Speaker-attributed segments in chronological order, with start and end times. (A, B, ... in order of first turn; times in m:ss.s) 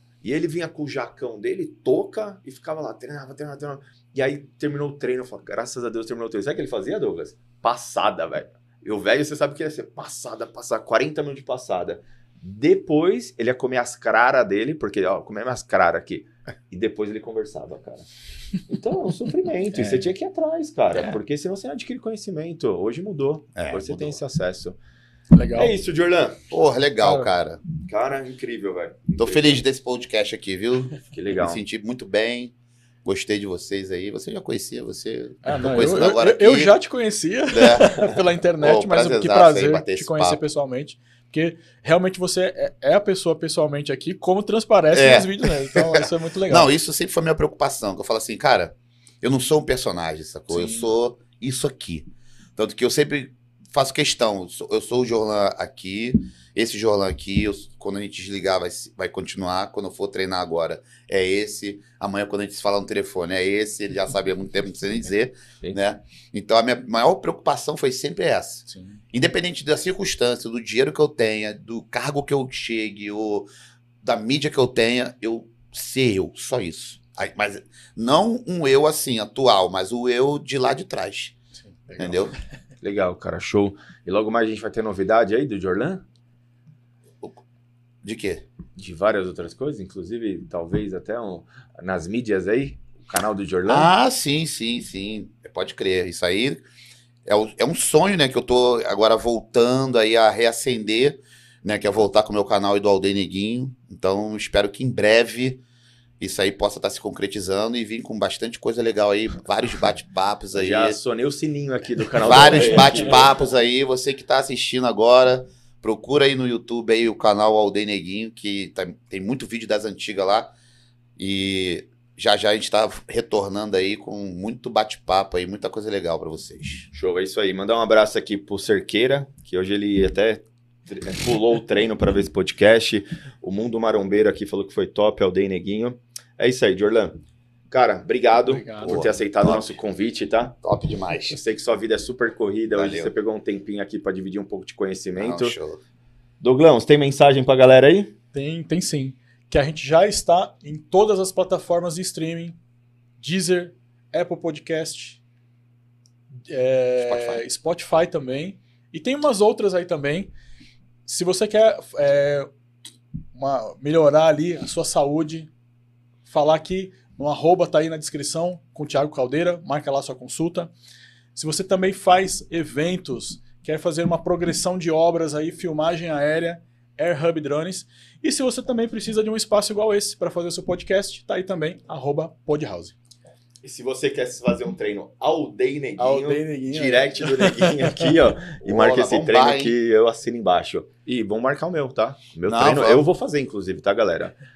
0:00.2-0:18.1 A
0:18.6-0:24.8 A
0:19.7-0:20.1 B
0:23.5-0:24.2 C
0:25.3-0:25.8 B
0:25.5-0:26.4 A
0:26.5-0:27.6 C
0:27.0-0:27.3 B
0:27.8-0:29.6 A
0:29.2-0:32.5 C
0:31.1-0:31.6 A
0:33.0-0:36.8 C
0:35.4-0:46.7 B
0:37.5-0:40.4 C
0:44.9-1:13.5 C
0:50.5-0:50.9 B
1:08.7-1:09.0 B
1:14.0-1:21.3 C
1:21.7-1:22.3 B
1:22.0-1:22.3 C
1:22.8-1:26.0 A
1:28.0-1:28.4 C
1:28.8-1:33.9 A
1:33.7-1:36.6 C
1:37.2-1:45.6 C
1:46.2-1:51.0 C
1:50.5-1:53.3 A
1:52.2-2:00.5 C
1:52.6-1:52.9 B
2:01.2-2:06.9 C
2:06.9-2:20.6 A
2:18.4-2:19.2 B
2:18.8-2:19.7 C
2:20.6-2:21.4 C
2:21.3-2:25.6 A
2:22.7-2:23.1 C
2:25.2-2:25.8 C
2:26.4-2:28.1 A
2:28.3-2:32.6 B
2:33.2-2:35.2 B
2:36.4-2:40.3 B
2:37.0-2:37.4 C
2:41.0-2:42.5 B
2:43.3-2:45.5 B
2:46.2-2:50.7 B
2:51.3-3:02.9 B
3:03.6-3:14.4 A
3:06.0-3:08.1 B
3:08.6-3:09.7 C
3:12.5-3:13.1 C